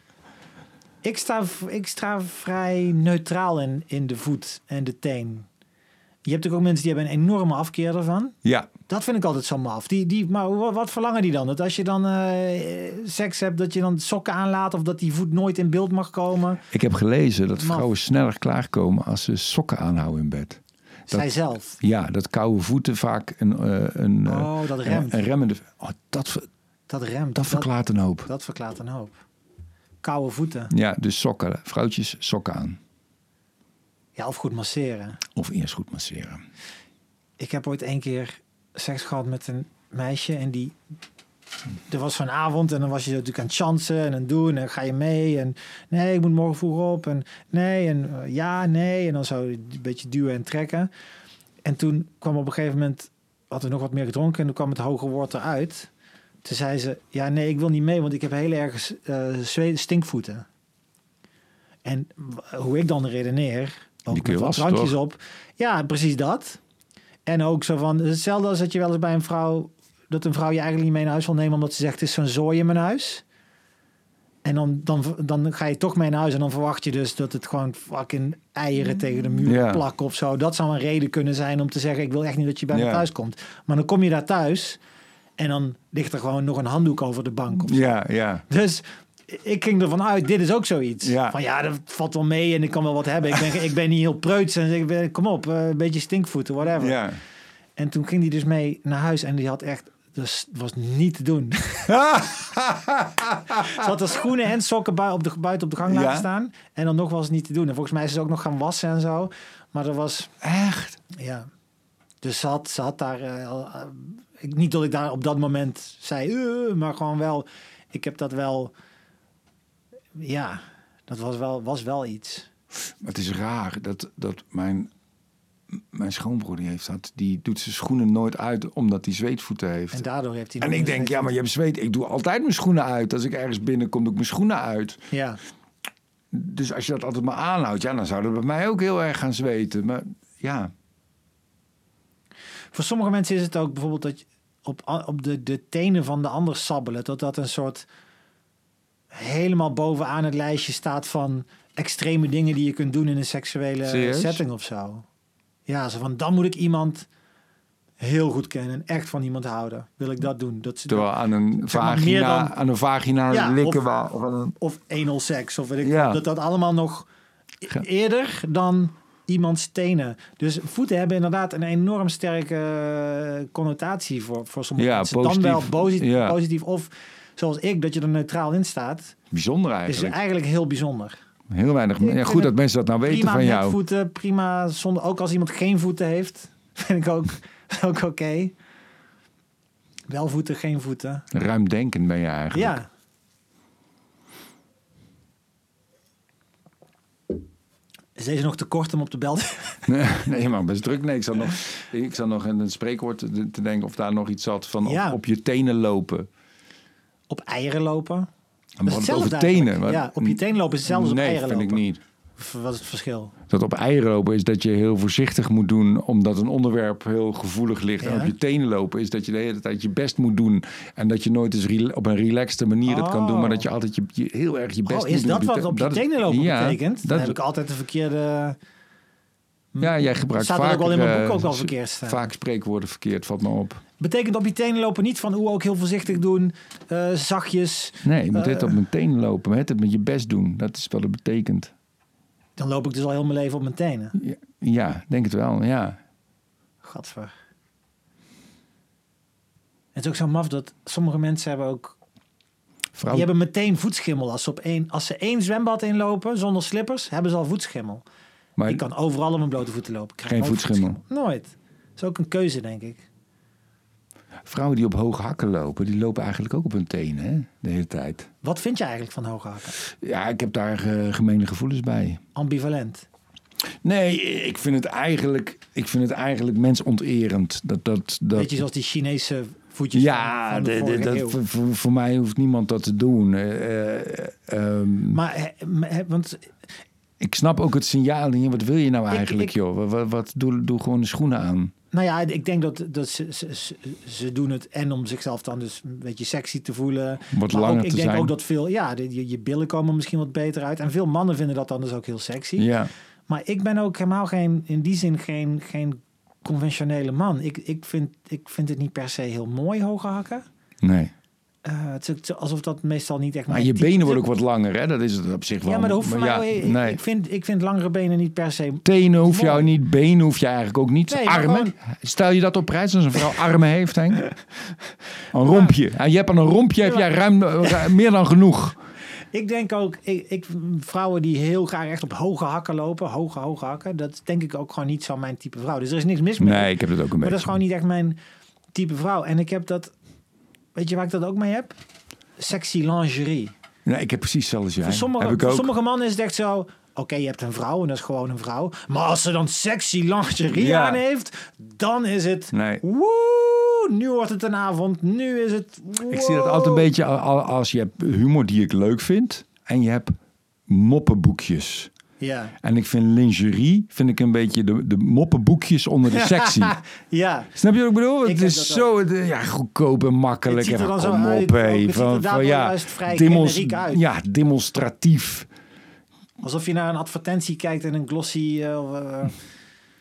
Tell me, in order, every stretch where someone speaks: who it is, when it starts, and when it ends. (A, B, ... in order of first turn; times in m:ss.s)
0:01.0-0:05.5 A
0:06.2-0:08.4 A
0:08.4-0:08.7 B
0:08.9-0:16.6 A
0:16.7-0:21.3 B
0:17.5-0:17.9 A
0:21.1-0:21.8 A
0:21.8-0:26.5 B
0:24.2-0:25.2 A
0:26.9-0:27.7 A
0:27.4-0:28.3 B
0:28.2-0:29.2 A
0:30.0-0:30.7 A
0:30.7-0:32.8 B
0:34.2-0:35.2 A
0:35.4-0:36.4 B
0:37.4-0:40.8 A
0:41.9-0:50.9 A
0:51.6-0:55.9 A
0:56.4-1:00.4 A
1:01.8-1:06.6 A
1:04.1-1:05.0 B
1:07.2-1:13.2 A
1:14.4-1:24.8 A
1:19.4-1:19.8 B
1:22.7-1:23.0 B
1:25.4-1:37.0 A
1:27.6-1:28.4 B
1:31.0-1:31.4 B
1:36.8-1:37.2 B
1:37.8-1:42.0 A
1:41.9-1:43.8 B
1:43.5-1:50.3 A
1:45.8-1:46.2 B
1:50.4-1:51.0 B
1:51.1-1:51.5 A
1:52.2-1:58.7 A
2:00.1-2:02.5 A
2:03.0-2:04.9 B
2:05.9-2:10.0 B
2:09.9-2:11.3 A
2:10.6-2:15.0 B
2:15.1-2:15.4 A
2:16.3-2:20.7 B
2:22.7-2:27.9 A
2:29.1-2:35.0 A
2:33.8-2:34.4 B
2:35.6-2:37.1 A
2:38.0-2:41.1 A
2:40.9-2:44.5 B
2:41.6-2:42.5 A
2:43.3-2:43.8 A
2:44.6-2:47.1 A
2:45.8-2:46.2 B
2:47.6-2:59.1 A
2:54.8-2:56.4 B
2:59.3-3:00.2 B
2:59.8-3:01.2 A
3:01.5-3:03.8 B
3:02.0-3:08.5 A
3:10.1-3:11.3 A
3:11.3-3:12.8 B
3:12.5-3:12.9 A
3:18.2-3:19.9 A
3:19.9-3:26.3 B
3:24.8-3:25.2 A
3:27.3-3:28.3 A
3:28.8-3:32.0 B
3:28.8-3:31.8 A
3:32.4-3:33.3 A
3:33.5-3:47.4 B
3:38.0-3:38.3 A
3:42.8-3:43.7 A
3:44.8-3:48.6 A
3:49.7-3:52.3 A
3:49.8-3:53.8 B
3:54.0-3:58.8 A
3:58.0-4:01.7 B
4:02.6-4:04.2 A
4:04.2-4:06.0 B
4:06.8-4:07.3 A
4:09.9-4:11.9 A
4:13.0-4:13.3 B
4:13.1-4:18.0 A
4:18.6-4:18.8 B
4:18.6-4:23.0 A
4:20.3-4:21.0 B
4:24.4-4:28.3 B
4:28.4-4:29.8 A
4:29.8-4:32.2 B
4:32.3-4:33.0 A
4:33.8-4:38.6 B
4:38.3-4:41.4 A
4:39.9-4:45.2 B
4:45.1-4:46.5 A
4:47.2-4:51.7 B
4:49.1-4:49.5 A
4:51.9-5:02.7 A
4:57.3-4:58.3 B
5:02.6-5:02.9 B
5:03.3-5:10.4 A
5:10.8-5:11.1 B
5:11.6-5:14.2 A
5:13.5-5:17.0 B
5:15.6-5:19.7 A
5:18.8-5:24.3 B
5:21.1-5:21.7 A
5:25.3-5:28.8 B
5:25.5-5:25.7 A
5:26.8-5:27.1 A
5:29.3-5:38.2 A
5:36.4-5:37.4 B
5:38.7-5:39.9 A
5:40.7-5:41.8 A
5:42.4-5:43.5 A
5:43.8-5:45.7 B
5:44.8-5:56.9 A
5:50.5-5:51.0 B
5:52.5-5:52.8 B
5:56.0-6:00.1 B
6:00.7-6:01.9 B
6:02.2-6:02.5 A
6:02.6-6:06.8 B
6:06.1-6:07.5 A
6:07.5-6:15.5 B
6:08.2-6:08.9 A
6:10.4-6:14.0 A
6:16.4-6:19.4 A